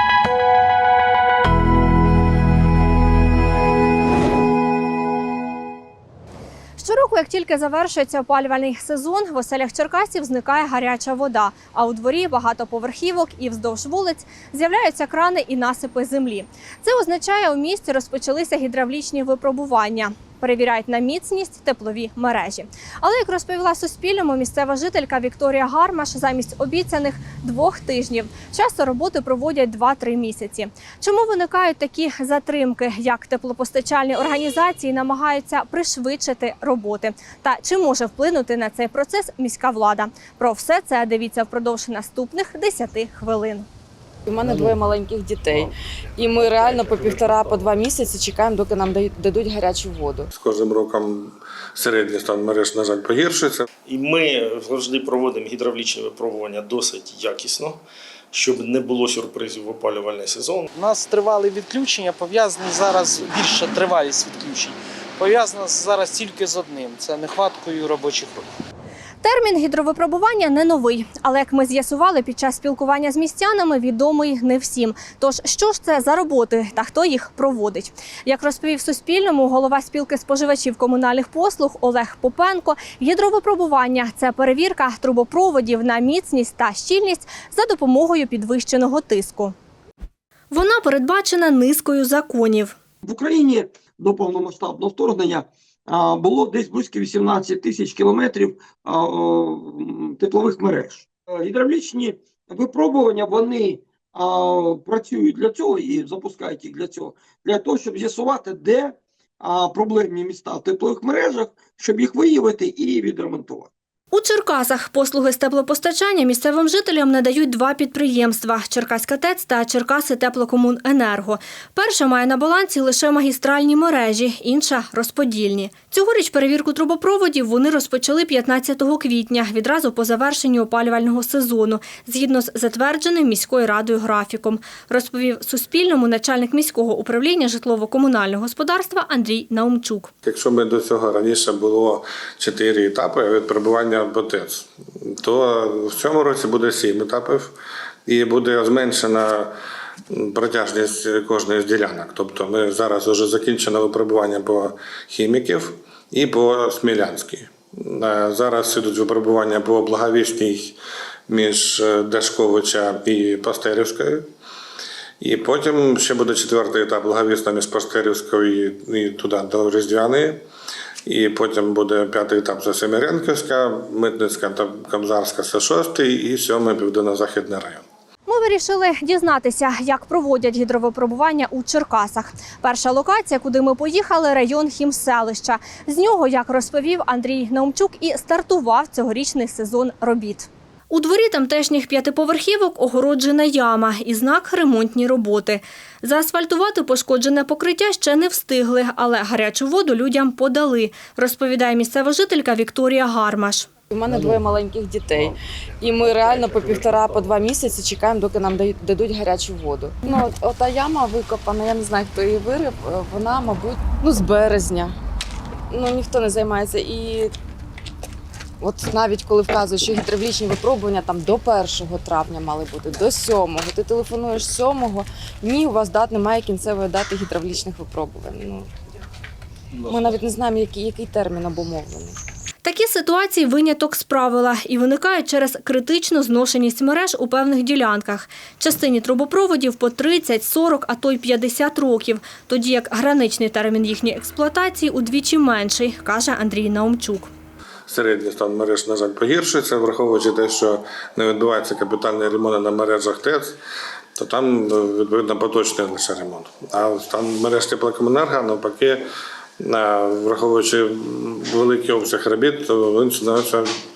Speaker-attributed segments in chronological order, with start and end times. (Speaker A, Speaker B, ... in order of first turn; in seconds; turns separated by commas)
Speaker A: 6.8-43.7, Speaker B: 44.3-50.3, Speaker C: 50.3-53.6, Speaker D: 53.9-57.8, Speaker D: 58.3-60.7, Speaker E: 60.7-68.5, Speaker A: 69.2-89.5, Speaker A: 90.5-92.8, Speaker F: 93.0-113.7, Speaker A: 114.1-140.1, Speaker C: 140.2-147.6, Speaker C: 148.1-149.5, Speaker C: 150.1-160.8, Speaker C: 161.3-164.2, Speaker C: 165.2-170.4, Speaker C: 171.1-177.8, Speaker A: 178.3-203.7, Speaker B: 203.9-214.9, Speaker B: 215.7-217.3, Speaker B: 218.6-228.7, Speaker B: 229.8-232.2, Speaker A: 232.6-247.3, Speaker C: 247.9-253.6, Speaker C: 254.2-259.0, Speaker C: 259.6-263.7